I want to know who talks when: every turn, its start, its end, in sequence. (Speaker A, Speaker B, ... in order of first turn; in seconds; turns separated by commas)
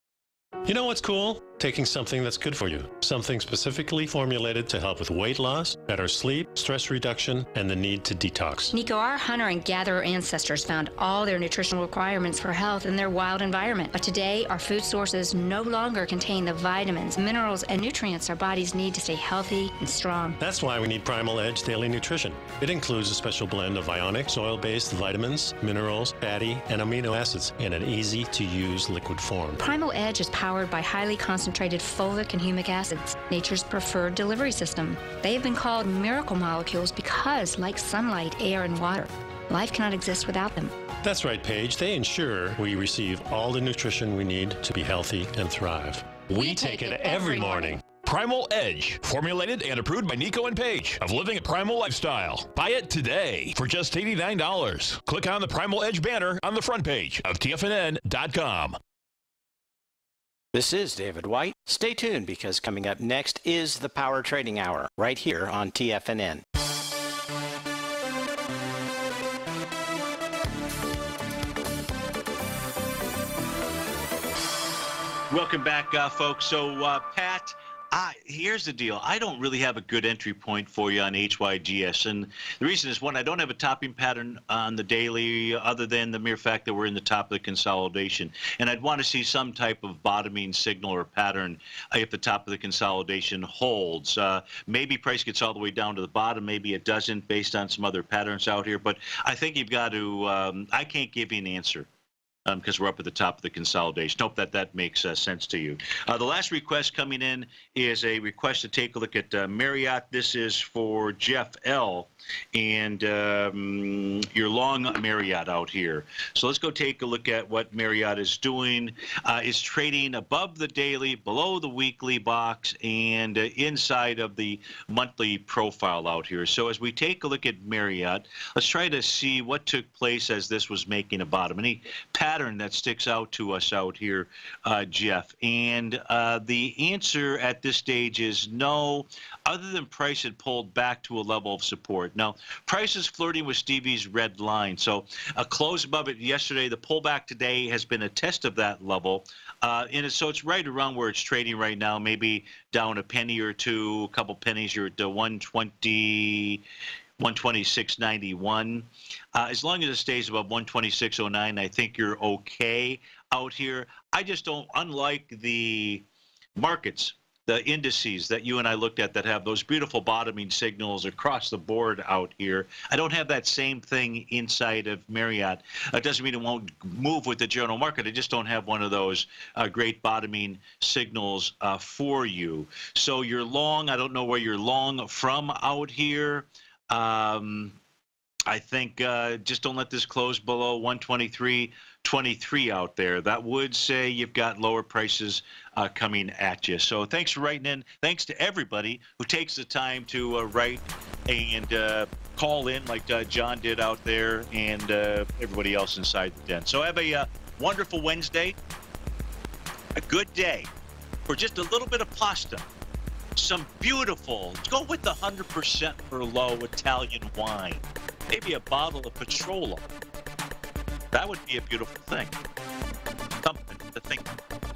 Speaker A: 0.6-8.7, Speaker B: 8.7-20.4, Speaker A: 20.4-29.7, Speaker B: 29.6-40.8, Speaker A: 41.0-47.8, Speaker B: 46.3-47.8, Speaker C: 48.0-58.8, Speaker D: 60.5-66.4, Speaker E: 75.3-101.9, Speaker E: 102.5-156.6, Speaker E: 157.2-166.0, Speaker E: 166.6-187.7, Speaker E: 188.5-208.6, Speaker E: 209.9-210.7, Speaker E: 211.3-212.7, Speaker E: 213.3-219.8, Speaker E: 221.1-222.4, Speaker E: 223.4-224.3